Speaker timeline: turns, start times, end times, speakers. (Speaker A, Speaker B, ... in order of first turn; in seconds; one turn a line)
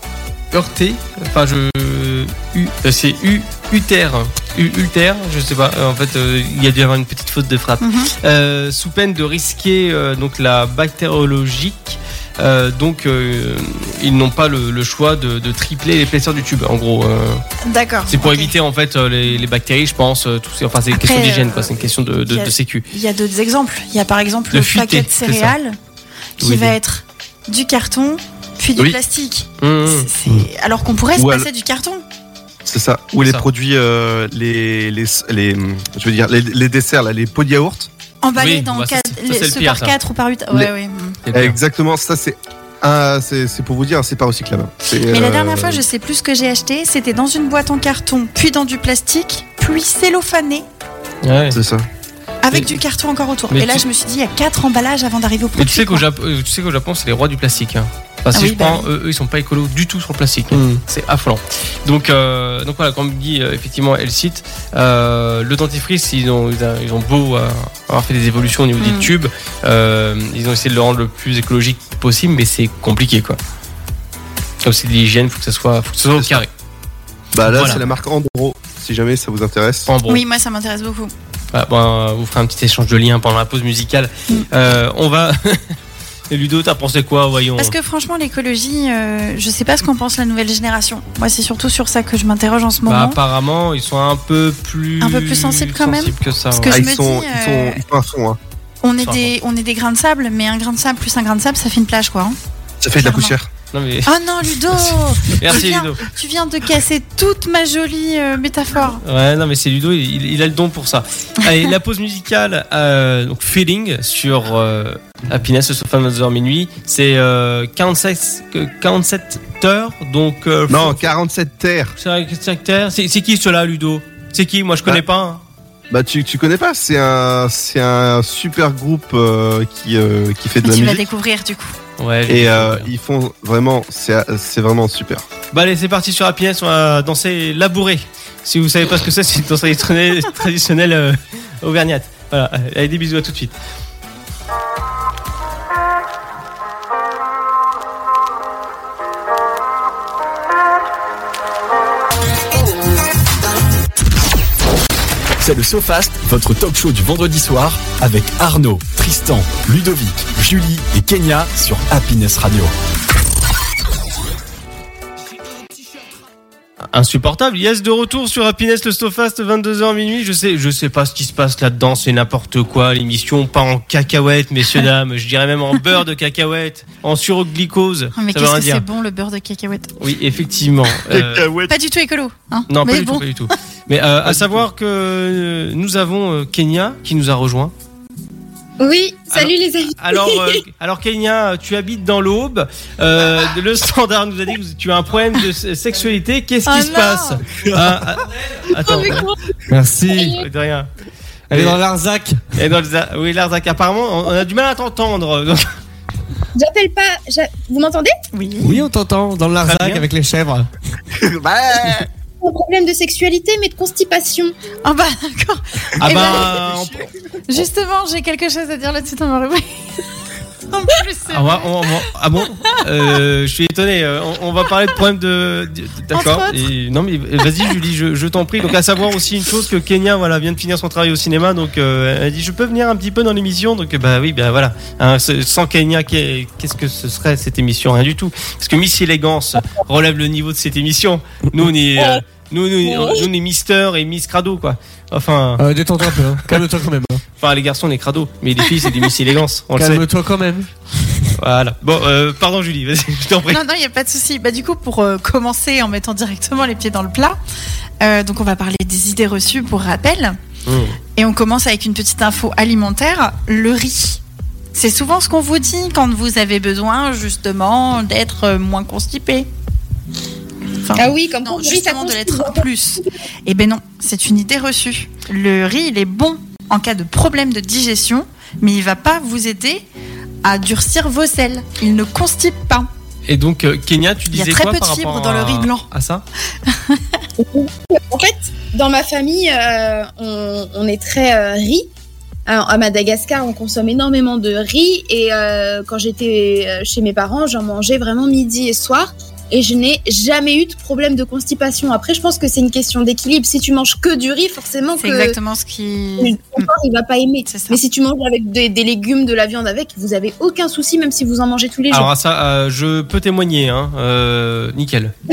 Speaker A: 0.5-17.4
Speaker B: 7.8-8.1
Speaker B: 17.6-18.5
Speaker A: 18.1-22.9
Speaker B: 20.9-25.8
Speaker A: 24.5-25.5
Speaker B: 26.4-32.0
Speaker A: 26.4-26.8
Speaker A: 29.6-30.1
Speaker C: 31.2-31.5
Speaker C: 32.7-37.9
Speaker B: 38.2-41.2
Speaker A: 38.4-40.0
Speaker A: 41.3-41.6
Speaker C: 41.3-45.8
Speaker B: 45.1-50.6
Speaker A: 51.2-51.6
Speaker C: 51.5-51.9
Speaker B: 52.4-56.0
Speaker A: 52.5-52.8
Speaker A: 53.5-53.8
Speaker A: 55.6-73.4
Speaker B: 58.3-58.9
Speaker D: 60.5-60.8
Speaker B: 68.8-69.1
Speaker A: 74.6-76.5
Speaker C: 76.2-76.4
Speaker C: 77.3-79.9
Speaker A: 77.5-77.8
Speaker B: 77.6-78.0
Speaker A: 79.9-80.2
Speaker B: 80.1-81.1
Speaker A: 81.5-85.8
Speaker A: 86.3-87.7
Speaker B: 87.6-93.2
Speaker A: 92.9-96.9
Speaker B: 95.0-97.8
Speaker C: 96.7-98.4
Speaker B: 98.8-102.4
Speaker A: 99.0-99.3
Speaker C: 102.8-103.5
Speaker B: 103.0-103.3
Speaker A: 103.7-104.1
Speaker B: 104.1-109.0
Speaker A: 104.7-106.0
Speaker A: 109.0-121.1
Speaker C: 120.7-122.0
Speaker A: 122.0-125.4
Speaker C: 125.9-131.1
Speaker B: 130.6-131.8
Speaker A: 132.0-132.9
Speaker C: 132.3-135.2
Speaker A: 135.5-143.6
Speaker E: 155.4-162.7
Speaker A: 166.9-178.8
Speaker B: 178.2-179.9
Speaker A: 180.0-181.5
Speaker C: 181.1-181.7
Speaker B: 181.7-183.2
Speaker A: 182.7-187.7
Speaker F: 188.8-190.6
Speaker A: 189.3-199.3
Speaker B: 196.7-197.4
Speaker C: 197.7-198.0
Speaker F: 198.7-199.5
Speaker D: 199.7-200.4
Speaker F: 200.1-200.4
Speaker A: 200.2-200.9
Speaker A: 201.5-201.8
Speaker D: 201.5-202.6
Speaker A: 202.6-205.8
Speaker F: 206.6-208.2
Speaker B: 208.3-208.8
Speaker D: 208.6-210.7
Speaker A: 209.6-210.1
Speaker C: 211.2-212.1
Speaker F: 212.4-214.6
Speaker B: 214.8-216.7
Speaker C: 216.0-217.1
Speaker A: 216.0-217.1
Speaker B: 217.5-220.0
Speaker B: 220.7-221.7
Speaker A: 221.3-245.6
Speaker B: 226.1-226.6
Speaker F: 242.9-243.3
Speaker D: 245.6-247.2
Speaker A: 247.4-250.1
Speaker D: 249.8-251.3
Speaker A: 251.4-253.6
Speaker B: 253.5-257.4
Speaker B: 258.0-260.4
Speaker A: 260.7-261.0
Speaker B: 261.2-264.2
Speaker B: 264.7-269.5
Speaker B: 270.8-279.9
Speaker F: 270.9-273.1
Speaker B: 280.4-282.9
Speaker A: 283.3-286.2
Speaker B: 284.3-285.9
Speaker B: 286.7-287.0
Speaker F: 287.4-291.9
Speaker F: 292.5-305.4
Speaker B: 305.0-306.7
Speaker F: 306.2-312.1
Speaker B: 307.5-307.8
Speaker A: 311.9-315.1